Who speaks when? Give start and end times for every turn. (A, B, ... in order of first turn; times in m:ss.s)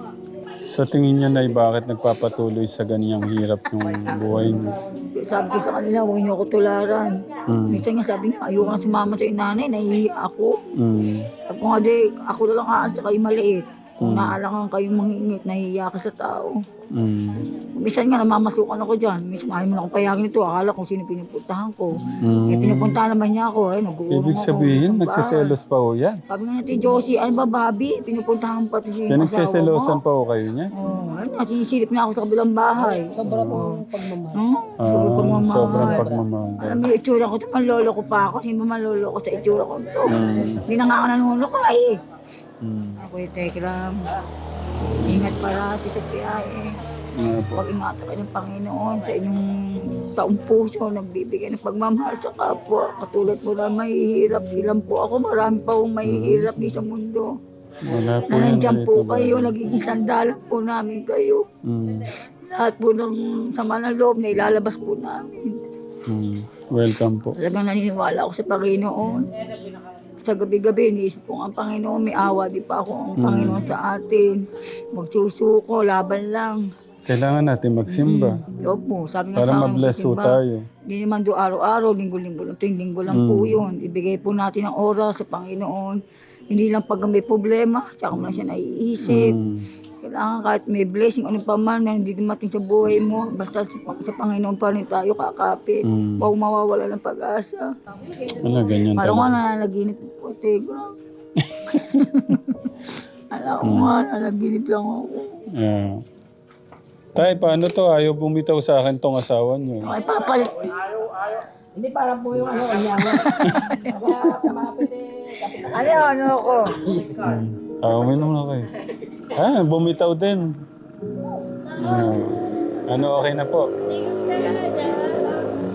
0:00.6-0:04.8 A
0:05.1-0:07.2 B
0:07.5-0:07.8 A
0:07.7-0:10.6 B
0:10.8-0:11.3 A
0:11.5-0:16.6 B
0:14.0-0:14.4 A
0:16.9-0:17.5 A
0:17.8-0:25.5 B
0:22.1-0:23.0 A
0:24.1-0:26.2 A
0:26.3-0:30.0 B
0:29.1-0:30.7 A
0:30.8-0:42.0 B
0:32.9-0:34.4 C
0:33.2-0:33.7 A
0:34.8-0:36.8 A
0:35.7-0:36.2 C
0:40.1-0:40.7 A
0:42.6-0:43.0 A
0:43.0-0:44.0 B
0:45.0-0:45.4 A
0:45.0-0:46.7 B
0:47.2-0:47.6 A
0:47.5-0:49.4 B
0:50.0-0:57.3 B
0:56.0-0:56.5 A
0:57.8-0:59.6 A
0:58.3-1:01.5 B
1:01.6-1:02.1 A
1:02.4-1:05.5 B
1:06.1-1:07.4 A
1:07.4-1:09.3 B
1:10.2-1:16.6 B
1:13.2-1:13.7 A
1:17.1-1:18.4 A
1:17.9-1:29.4 B
1:19.4-1:20.7 A
1:23.1-1:23.6 A
1:29.0-1:29.7 A
1:30.0-1:37.7 B
1:35.8-1:36.3 A
1:38.4-1:39.4 A
1:38.9-1:40.9 B
1:41.4-1:41.7 A
1:41.7-1:42.8 B
1:43.3-1:45.4 B
1:43.6-1:43.9 A
1:45.6-1:46.0 A
1:47.2-1:50.0 A
1:49.8-1:50.7 B
1:51.8-1:57.2 C
1:53.3-1:54.4 B
1:53.4-1:53.7 A
1:55.6-1:56.8 B
1:57.1-1:58.7 A
1:59.3-2:00.5 A
2:01.7-2:03.7 A
2:04.3-2:05.3 C